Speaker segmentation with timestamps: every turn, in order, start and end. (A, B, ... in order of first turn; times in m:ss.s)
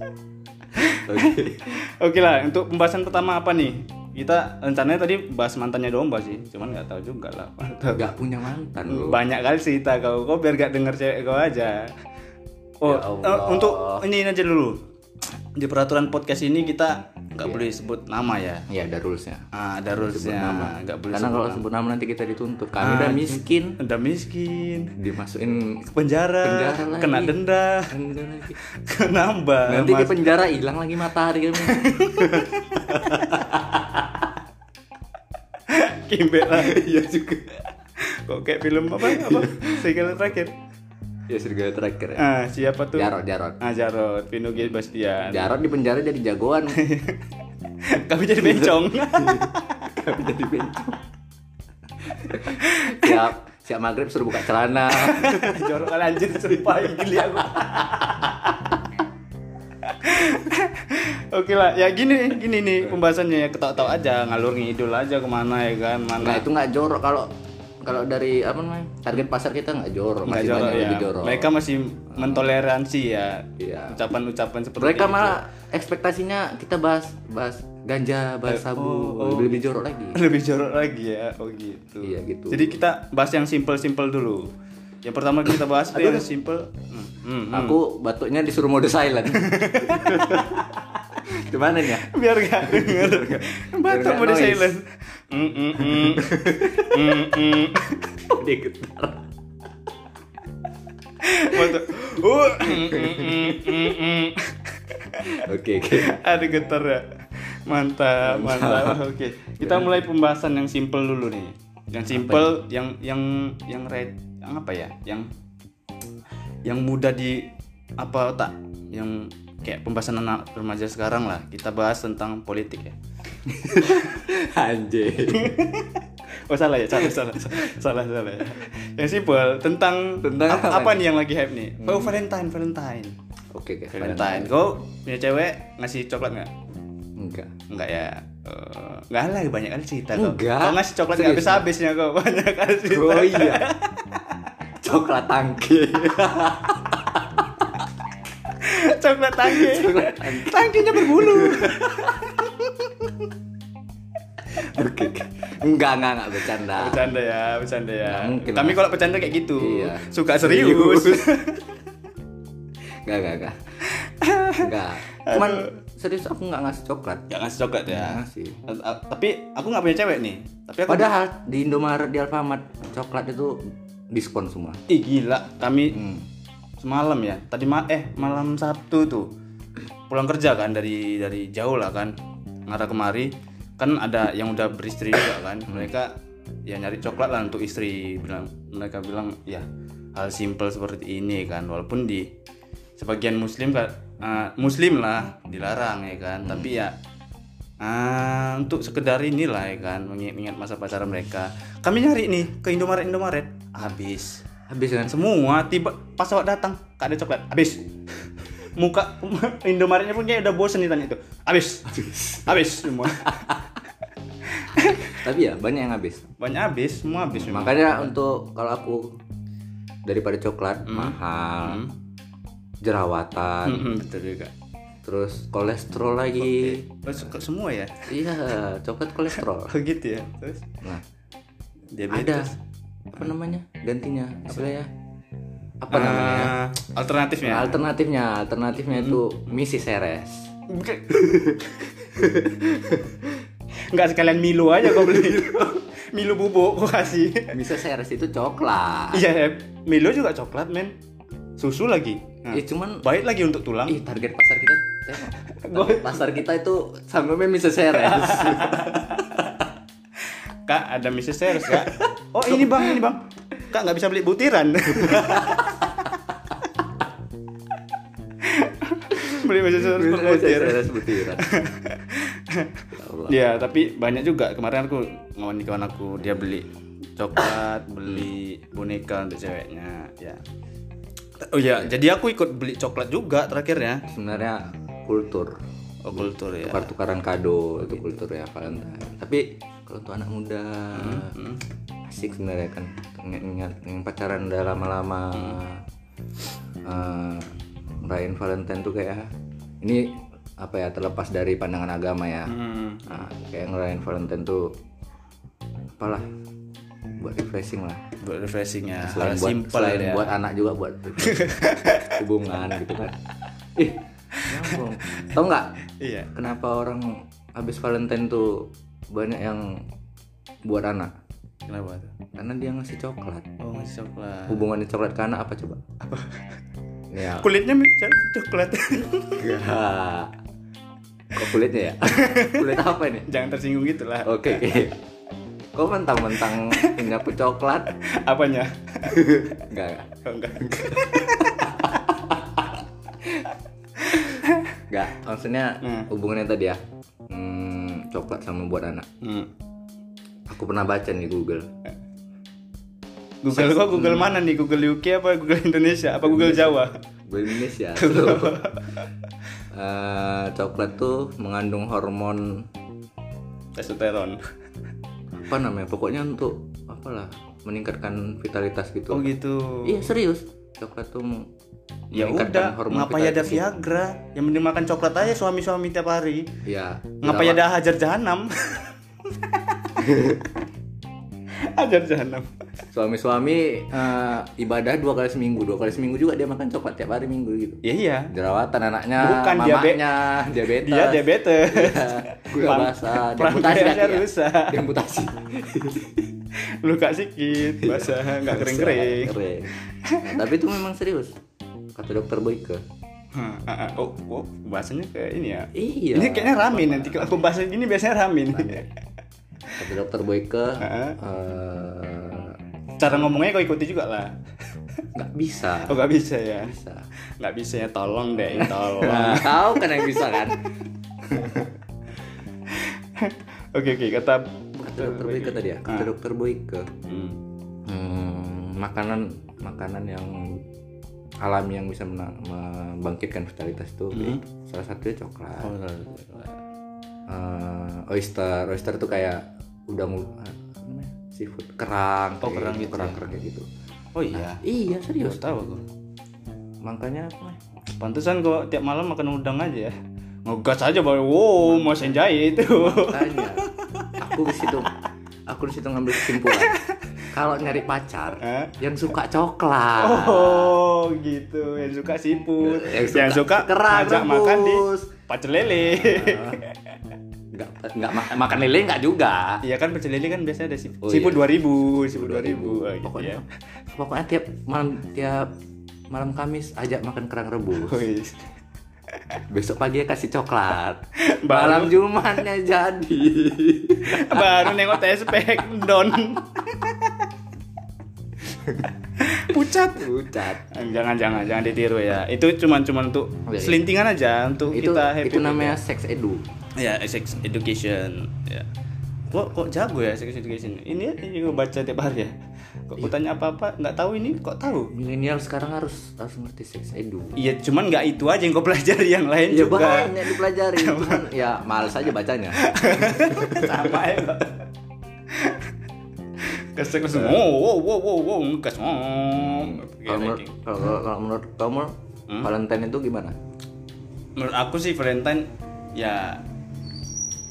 0:00.8-0:08.1 A
0:00.8-0:01.7 B
0:07.9-0:09.2 B
0:08.8-0:11.9 A
0:12.8-0:14.8 A
0:12.8-0:14.0 B
0:15.6-0:18.7 A
0:17.4-0:17.7 B
0:18.7-0:23.8 B
0:19.5-0:21.6 A
0:22.8-0:24.9 A
0:25.0-0:25.9 B
0:25.9-0:27.9 A
0:26.4-0:28.6 B
0:28.6-0:30.3 A
0:29.7-0:34.0 B
0:31.6-0:33.6 A
0:35.7-0:36.8 A
0:36.5-0:37.6 B
0:38.0-0:40.5 A
0:39.0-0:40.1 B
0:41.3-0:42.2 B
0:42.2-0:45.6 A
0:42.9-0:43.6 B
0:45.2-0:46.8 B
0:46.7-0:47.3 A
0:47.8-0:50.0 A
0:48.4-0:51.0 B
0:52.1-0:55.8 B
0:52.3-0:53.3 A
0:54.9-0:58.9 A
0:57.4-0:57.7 B
0:59.8-1:06.5 A
1:06.2-1:07.3 B
1:07.8-1:11.5 B
1:10.3-1:15.4 A
1:12.1-1:12.6 B
1:13.6-1:14.0 B
1:14.8-1:20.2 B
1:18.5-1:19.6 A
1:20.1-1:24.5 A
1:22.0-1:22.8 B
1:25.0-1:27.8 A
1:25.9-1:26.3 B
1:27.5-1:30.6 B
1:29.4-1:31.2 A
1:31.2-1:32.1 B
1:31.9-1:38.3 A
1:32.6-1:34.8 B
1:35.8-1:37.3 B
1:38.3-1:39.3 B
1:41.2-1:55.3 A
1:41.5-1:41.8 B
1:42.6-1:43.9 B
1:45.3-1:46.2 B
1:48.2-1:49.1 B
1:49.6-1:50.0 B
1:52.1-1:52.6 B
1:56.6-2:03.0 A
2:03.5-2:05.6 B
2:05.3-2:13.2 A
2:06.9-2:07.6 B
2:10.2-2:11.1 B
2:11.8-2:12.2 B
2:13.5-2:14.5 B
2:13.9-2:16.5 A
2:17.2-2:17.5 B
2:17.7-2:24.5 A
2:20.1-2:21.7 B
2:22.9-2:23.7 B
2:24.8-2:27.6 B
2:28.4-2:33.3 A
2:29.4-2:32.3 B
2:34.4-2:37.1 B
2:36.7-2:41.8 A
2:38.0-2:41.4 B
2:43.0-2:43.6 B
2:43.8-2:45.7 A
2:44.6-2:47.3 B
2:47.3-2:51.1 A
2:47.9-2:48.6 B
2:50.9-2:54.8 B
2:54.9-2:56.0 A
2:55.9-2:56.3 B
2:56.8-2:59.3 A
3:00.1-3:02.2 A
3:02.7-3:06.2 A
3:05.7-3:05.9 B
3:06.7-3:12.3 A
3:13.0-3:17.0 A
3:16.4-3:16.7 B
3:17.8-3:24.4 A
3:24.7-3:25.2 B
3:25.1-3:27.9 A
3:28.6-3:33.5 A
3:31.9-3:33.8 B
3:34.4-3:35.2 A
3:34.8-3:36.2 B
3:36.4-3:38.1 A
3:37.3-3:39.2 B
3:40.0-3:41.8 B
3:40.9-3:42.0 A
3:42.8-3:44.0 B
3:43.6-3:44.5 A
3:45.0-3:47.3 B
3:46.4-3:48.1 A
3:48.1-3:49.8 B
3:49.4-3:50.7 A
3:51.9-3:52.6 A
3:52.1-3:52.5 B
3:53.1-3:54.9 B
3:55.8-3:56.6 B
3:55.9-3:57.8 A
3:57.4-4:00.5 B
3:58.9-3:59.2 A
4:00.7-4:01.9 A
4:01.1-4:03.3 B
4:03.9-4:07.5 A
4:04.8-4:05.8 B
4:07.5-4:09.3 B
4:09.1-4:11.0 A
4:11.6-4:14.0 A
4:12.5-4:13.0 B
4:13.9-4:19.7 B
4:15.4-4:16.4 A
4:17.9-4:19.1 A
4:20.2-4:26.7 A
4:21.6-4:23.0 B
4:25.0-4:25.9 B
4:28.4-4:40.4 A
4:29.2-4:31.6 B
4:32.9-4:33.6 B
4:41.4-4:44.0 A
4:44.1-4:45.6 B
4:46.0-4:46.9 A
4:46.1-4:51.3 B
4:47.8-4:48.1 A
4:51.0-4:51.6 A
4:52.0-4:55.8 B
4:56.8-4:57.5 B
4:58.0-4:59.3 B
4:59.8-5:02.6 B
5:02.5-5:03.2 A
5:03.1-5:04.7 B
5:06.0-5:06.3 B
5:07.2-5:08.0 B
5:08.2-5:10.4 A
5:09.0-5:11.5 B
5:11.2-5:12.2 A
5:12.1-5:13.2 B
5:13.8-5:15.7 B
5:14.3-5:15.4 A
5:16.0-5:16.4 A
5:16.3-5:19.8 B
5:20.7-5:21.1 B
5:21.7-5:22.1 A
5:22.3-5:23.5 B
5:23.6-5:24.6 A
5:24.5-5:25.8 B
5:26.0-5:26.5 A
5:27.1-5:27.5 B
5:27.2-5:29.6 A
5:29.4-5:30.3 B
5:31.3-5:33.3 B
5:32.1-5:34.7 A
5:34.2-5:35.0 B
5:35.7-5:37.9 B
5:36.3-5:37.1 A
5:38.0-5:39.6 A
5:39.1-5:42.4 B
5:40.2-5:42.6 A
5:43.3-5:44.8 A
5:44.9-5:46.8 B
5:45.8-5:46.1 A
5:47.3-5:49.1 B
5:49.2-5:49.5 A
5:50.5-5:51.7 B
5:53.4-5:57.0 A
5:53.5-5:54.3 B
5:56.2-5:58.7 B
5:58.0-5:59.1 A
5:59.7-6:02.7 B
6:03.8-6:04.4 A
6:05.4-6:09.3 B
6:09.1-6:10.0 A
6:09.8-6:11.5 B
6:12.1-6:13.7 B
6:12.1-6:16.5 A
6:16.6-6:17.6 B
6:17.2-6:20.3 A
6:20.0-6:20.4 B
6:21.6-6:22.5 A
6:22.9-6:36.3 B
6:27.8-6:28.3 A
6:29.2-6:30.0 A
6:30.6-6:34.8 A
6:36.7-6:39.3 A
6:37.8-6:41.3 B
6:39.8-6:40.3 A
6:42.0-6:42.8 B
6:43.3-6:48.9 A
6:45.7-6:47.4 B
6:48.5-6:48.8 B
6:49.8-6:52.6 B
6:50.8-6:51.2 A
6:53.0-6:54.3 A
6:55.1-6:56.0 B
6:55.9-6:56.8 A
6:56.6-6:57.1 B
6:57.4-7:00.7 A
6:58.4-7:00.6 B
7:01.3-7:01.7 A
7:01.3-7:01.7 B
7:02.7-7:06.1 A
7:04.8-7:06.9 B
7:07.1-7:07.4 A
7:07.9-7:10.7 B
7:11.4-7:15.7 B
7:14.1-7:14.4 A
7:15.6-7:16.6 A
7:17.3-7:23.7 B
7:22.4-7:23.2 A
7:24.2-7:24.6 A
7:24.3-7:25.4 B
7:25.2-7:25.8 A
7:26.8-7:27.6 B
7:28.0-7:30.0 A
7:30.5-7:35.0 A
7:31.6-7:34.9 B
7:35.5-7:36.8 B
7:36.2-7:37.2 A
7:37.3-7:40.8 B
7:38.4-7:38.8 A
7:40.0-7:47.0 A
7:42.6-7:45.1 B
7:45.7-7:46.6 B
7:47.5-7:49.6 B
7:49.6-7:53.4 A
7:51.0-7:55.5 B
7:56.1-7:58.1 B
7:57.8-7:58.4 A
7:59.1-7:59.4 A
7:59.5-8:05.0 B
8:01.3-8:02.0 A
8:04.0-8:07.3 A
8:08.5-8:08.9 B
8:09.2-8:15.8 A
8:09.8-8:10.6 B
8:13.5-8:13.9 B
8:14.7-8:16.4 B
8:16.8-8:18.7 A
8:19.3-8:22.4 A
8:22.9-8:24.9 A
8:24.9-8:27.4 B
8:27.4-8:31.3 A
8:29.5-8:34.1 B
8:32.6-8:34.7 A
8:35.3-8:35.7 A
8:36.4-8:40.9 A
8:37.0-8:37.4 B
8:39.4-8:43.4 B
8:44.4-8:46.4 A